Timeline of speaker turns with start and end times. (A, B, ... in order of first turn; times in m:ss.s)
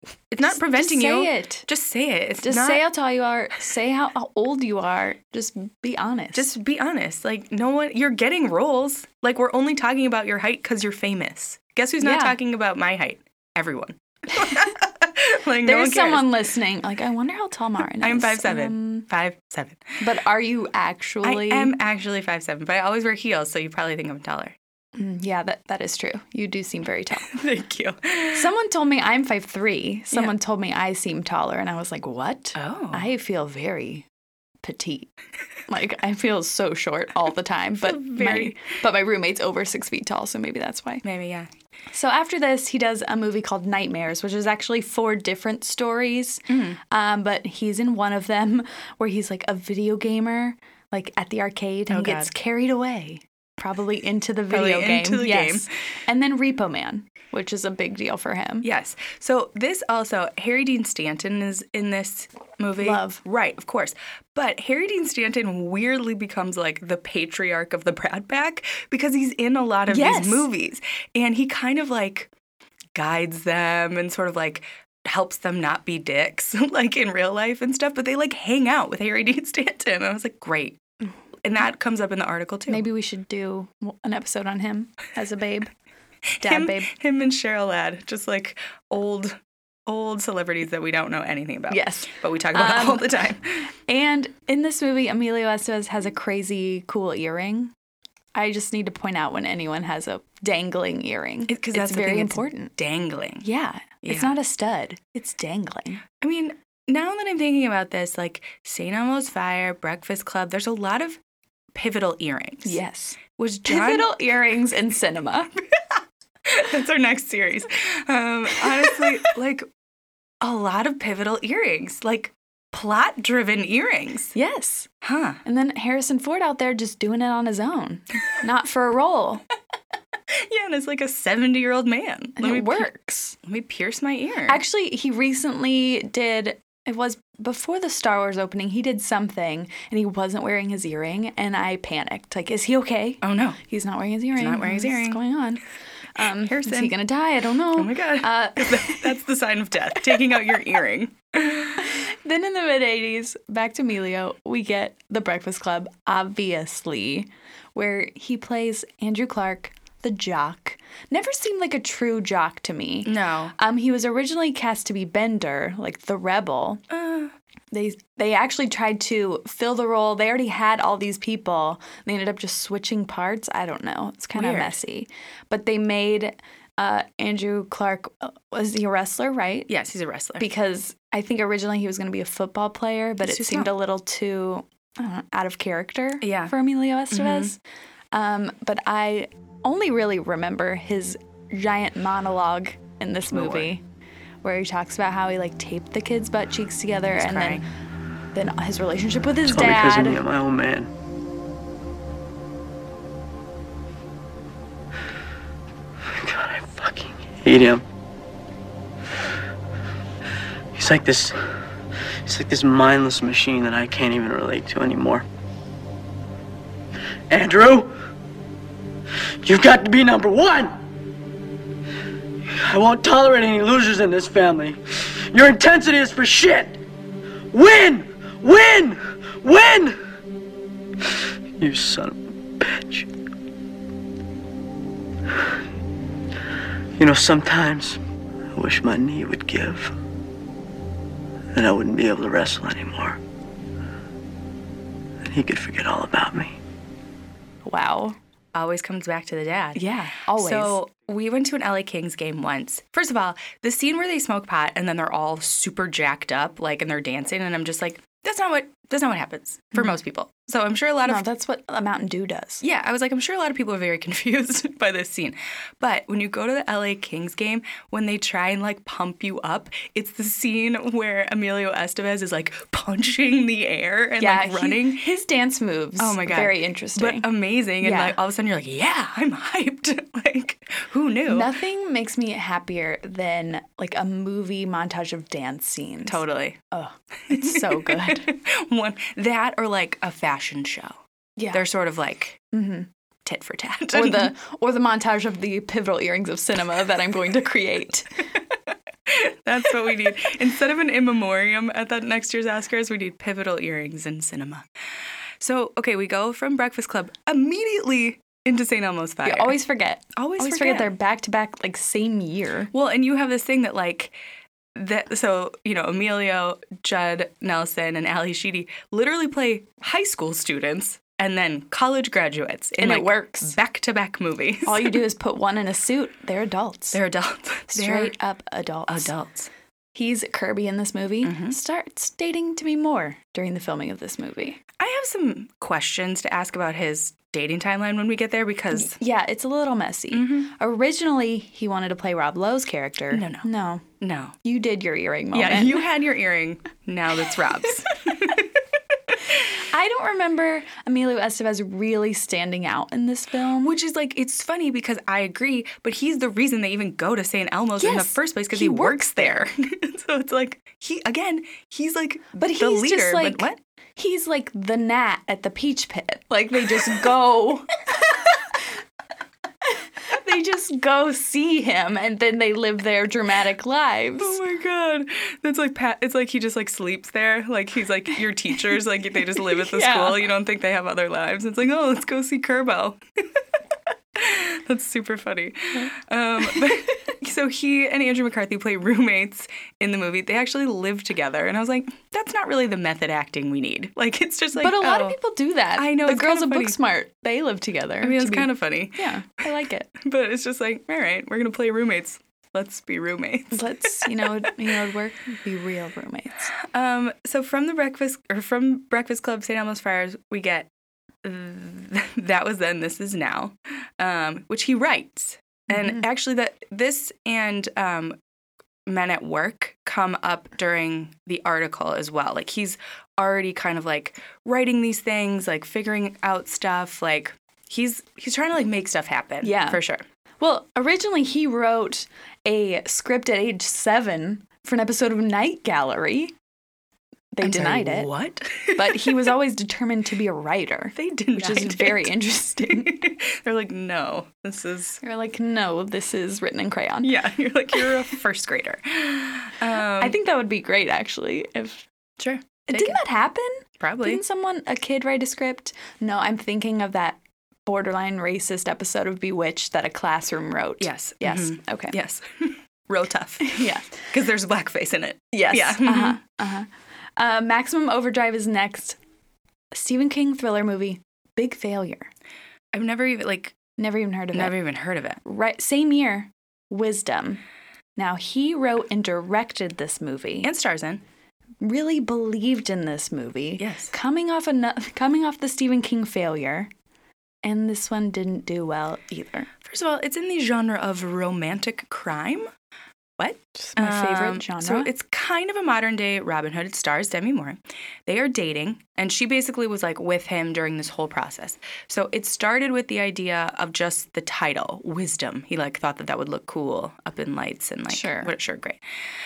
0:00.3-0:02.8 A
0:00.4-0:01.7 B
0:02.4-0:06.5 B
0:06.3-0:16.3 A
0:12.0-0:12.3 B
0:14.4-0:14.7 B
0:15.6-0:19.0 B
0:18.0-0:20.0 A
0:20.0-0:21.7 B
0:21.2-0:24.5 A
0:25.0-0:27.4 B
0:27.3-0:28.5 A
0:28.3-0:34.0 B
0:32.6-0:33.1 A
0:34.6-0:35.1 B
0:35.7-0:41.0 B
0:37.8-0:38.6 A
0:41.0-0:41.5 A
0:41.9-0:58.7 B
0:46.5-0:46.8 A
0:51.9-0:52.3 A
0:54.5-0:55.7 A
0:58.6-1:12.3 A
1:02.8-1:03.2 B
1:09.9-1:10.5 B
1:12.9-1:20.8 A
1:21.4-1:22.8 A
1:22.7-1:25.7 B
1:26.4-1:33.6 A
1:26.4-1:26.9 B
1:31.7-1:33.3 B
1:33.9-1:37.7 B
1:38.3-1:42.7 B
1:41.5-1:43.4 A
1:43.4-1:46.0 B
1:44.0-1:44.3 A
1:46.2-1:51.2 A
1:51.7-1:54.1 A
1:52.6-1:55.5 B
1:55.8-1:59.7 A
1:58.7-1:59.2 B
2:00.4-2:04.3 A
2:04.3-2:04.9 B
2:05.0-2:05.4 A
2:05.4-2:09.4 B
2:10.3-2:12.9 A
2:12.4-2:13.4 B
2:13.4-2:14.6 A
2:14.5-2:29.2 B
2:23.2-2:23.6 A
2:24.4-2:25.2 A
2:26.2-2:26.9 A
2:27.7-2:31.9 A
2:31.8-2:46.8 B
2:43.0-2:43.5 A
2:46.9-2:47.3 A
2:47.7-2:59.7 B
2:54.3-2:54.8 A
2:59.7-3:00.4 A
3:00.4-3:07.6 B
3:03.2-3:03.7 A
3:06.2-3:06.5 A
3:07.1-3:07.5 A
3:08.1-3:13.8 B
3:13.3-3:13.7 A
3:14.4-3:17.6 B
3:17.1-3:17.6 A
3:18.3-3:20.2 B
3:19.5-3:20.9 C
3:26.0-3:27.8 C
3:30.7-3:31.6 C
3:32.2-3:35.2 C
3:37.3-3:37.9 C
3:39.4-3:40.8 C
3:42.5-3:46.8 C
3:47.5-3:50.0 C
3:51.0-3:53.1 C
3:55.3-3:55.6 C
3:57.0-3:58.0 C
3:58.5-4:00.0 C
4:01.5-4:03.2 C
4:05.2-4:06.6 C
4:07.6-4:08.2 B
4:08.5-4:21.2 A
4:09.7-4:10.8 B
4:21.0-4:22.6 B
4:22.6-4:35.1 A
4:34.2-4:37.3 B
4:36.0-4:41.5 A
4:37.8-4:38.2 B
4:41.3-4:46.2 B
4:46.0-4:46.6 A
4:46.7-4:48.3 B
4:47.3-4:51.0 A
4:51.4-4:51.6 B
4:51.5-4:52.4 A
4:52.5-4:52.9 B
4:53.2-4:54.3 A
4:53.9-4:58.4 B
4:59.0-5:04.7 A
5:05.4-5:09.6 A
5:09.2-5:12.7 B
5:10.1-5:10.9 A
5:12.7-5:14.1 A
5:14.7-5:25.0 A
5:22.8-5:23.6 B
5:24.6-5:27.0 B
5:26.9-5:28.1 A
5:27.7-5:29.1 B
5:28.9-5:29.5 A
5:29.9-5:34.6 B
5:31.2-5:31.6 A
5:34.8-5:39.0 A
5:38.7-5:43.8 B
5:40.1-5:40.5 A
5:43.1-5:43.5 A
5:44.0-5:44.4 A
5:44.4-5:45.9 B
5:45.3-5:48.6 A
5:49.4-5:53.7 B
5:53.6-6:03.6 A
5:57.8-5:59.4 B
6:02.3-6:08.4 B
6:10.0-6:14.4 B
6:14.2-6:23.4 A
6:19.4-6:20.2 B
6:24.1-6:35.2 A
6:34.5-6:39.9 B
6:35.7-6:36.8 A
6:38.0-6:39.4 A
6:39.9-6:44.5 A
6:43.5-6:46.5 B
6:46.6-6:50.7 A
6:51.2-6:58.2 A
6:58.8-7:10.0 A
7:09.4-7:09.8 B
7:10.4-7:16.3 B
7:17.3-7:18.1 B
7:17.4-7:19.3 A
7:18.8-7:23.0 B
7:20.9-7:25.0 A
7:25.0-7:27.1 B
7:27.0-7:30.2 A
7:29.9-7:31.8 B
7:32.2-7:33.0 A
7:32.6-7:42.0 B
7:33.8-7:34.2 A
7:40.8-7:46.2 A
7:43.4-7:44.0 B
7:45.3-7:49.0 B
7:49.7-7:52.1 B
7:52.7-7:53.6 A
7:53.8-7:54.6 B
7:54.3-7:55.2 A
7:55.2-7:57.4 B
7:58.0-8:00.5 B
8:00.4-8:01.0 A
8:01.6-8:06.7 B
8:03.6-8:03.9 A
8:07.4-8:09.5 B
8:09.6-8:12.5 A
8:13.2-8:28.8 A
8:13.5-8:14.9 B
8:27.9-8:28.3 B